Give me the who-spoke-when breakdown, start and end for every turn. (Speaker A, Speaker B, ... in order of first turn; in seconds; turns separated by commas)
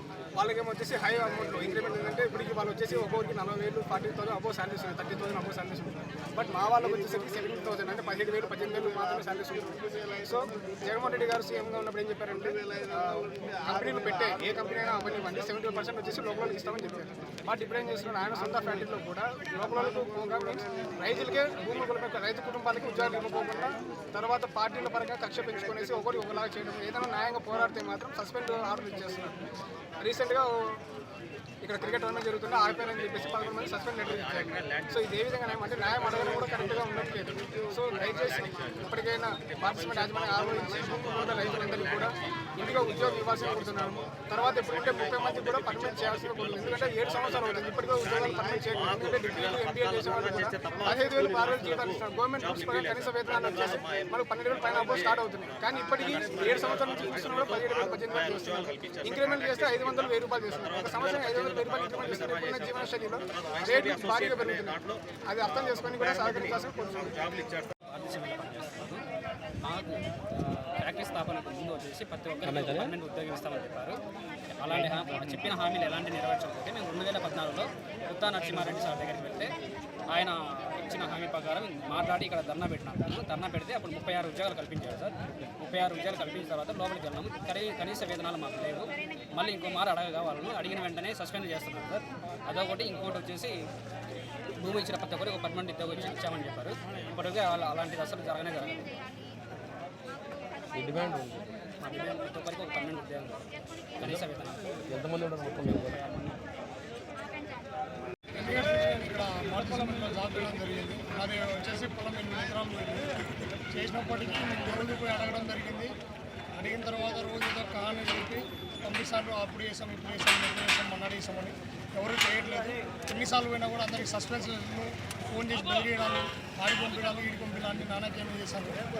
Speaker A: 0.3-29.4, Speaker A: 30.0-30.8, Speaker A: 31.6-67.5, Speaker B: 33.0-33.6, Speaker B: 34.4-34.9, Speaker B: 39.7-41.8, Speaker B: 42.6-43.8, Speaker B: 44.9-48.2, Speaker B: 49.0-50.0, Speaker B: 50.6-51.9, Speaker B: 52.5-54.1, Speaker B: 54.9-55.1, Speaker B: 56.1-57.6, Speaker B: 58.2-59.8, Speaker B: 60.6-62.9, Speaker B: 63.6-64.9, Speaker B: 66.0-66.4, Speaker C: 67.9-69.0, Speaker C: 69.6-74.0, Speaker B: 72.4-72.9, Speaker C: 74.6-79.5, Speaker C: 80.1-93.5, Speaker C: 94.6-98.9, Speaker B: 100.7-101.4, Speaker C: 101.8-103.4, Speaker C: 104.0-104.8, Speaker B: 104.9-106.0, Speaker C: 105.8-106.4, Speaker D: 108.5-113.1, Speaker D: 113.8-115.9, Speaker D: 116.6-128.8